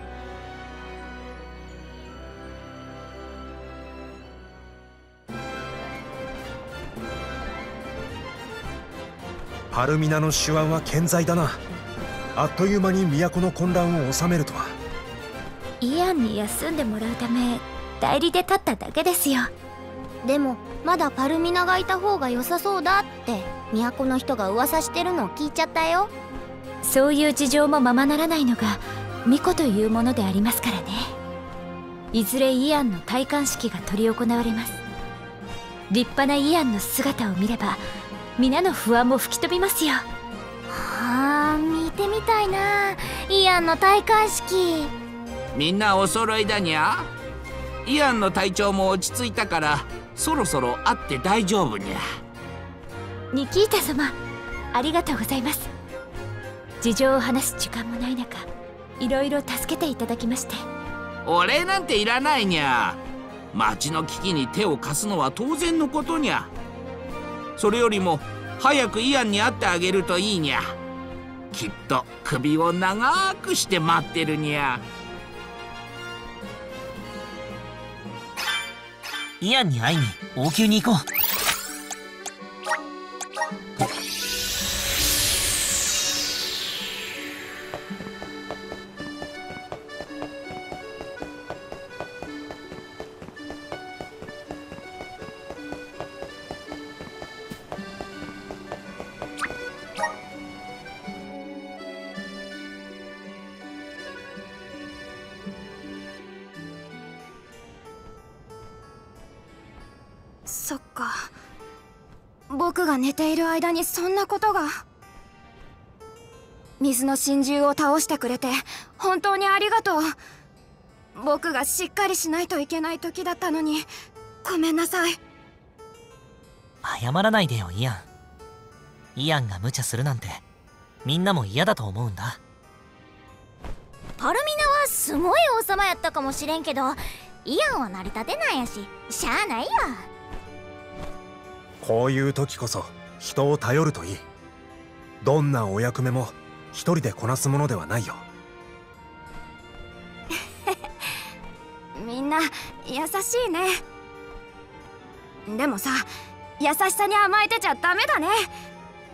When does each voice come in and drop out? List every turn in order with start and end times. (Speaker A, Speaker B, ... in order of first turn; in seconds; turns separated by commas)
Speaker A: 9.7-11.6, Speaker A: 12.4-14.8, Speaker B: 15.8-19.5, Speaker C: 20.2-26.1, Speaker B: 26.8-31.1, Speaker B: 32.1-34.8, Speaker B: 35.9-37.8, Speaker B: 38.4-40.0, Speaker C: 40.7-44.9, Speaker D: 45.5-47.1, Speaker D: 47.9-52.0, Speaker B: 53.3-54.2, Speaker B: 54.7-55.7, Speaker B: 56.8-58.5, Speaker B: 59.0-60.6, Speaker D: 61.3-63.0, Speaker D: 63.5-66.5, Speaker D: 67.6-70.7, Speaker D: 71.5-74.8, Speaker E: 79.4-81.0, Speaker F: 110.5-111.3, Speaker F: 112.5-114.7, Speaker F: 116.8-120.1, Speaker F: 121.2-123.9, Speaker F: 124.4-125.2, Speaker E: 126.8-128.1, Speaker E: 129.2-130.4, Speaker E: 131.0-132.4, Speaker C: 134.2-140.1, Speaker A: 141.8-144.2, Speaker A: 145.2-148.2, Speaker F: 151.9-153.8, Speaker F: 155.5-156.1, Speaker F: 156.6-158.5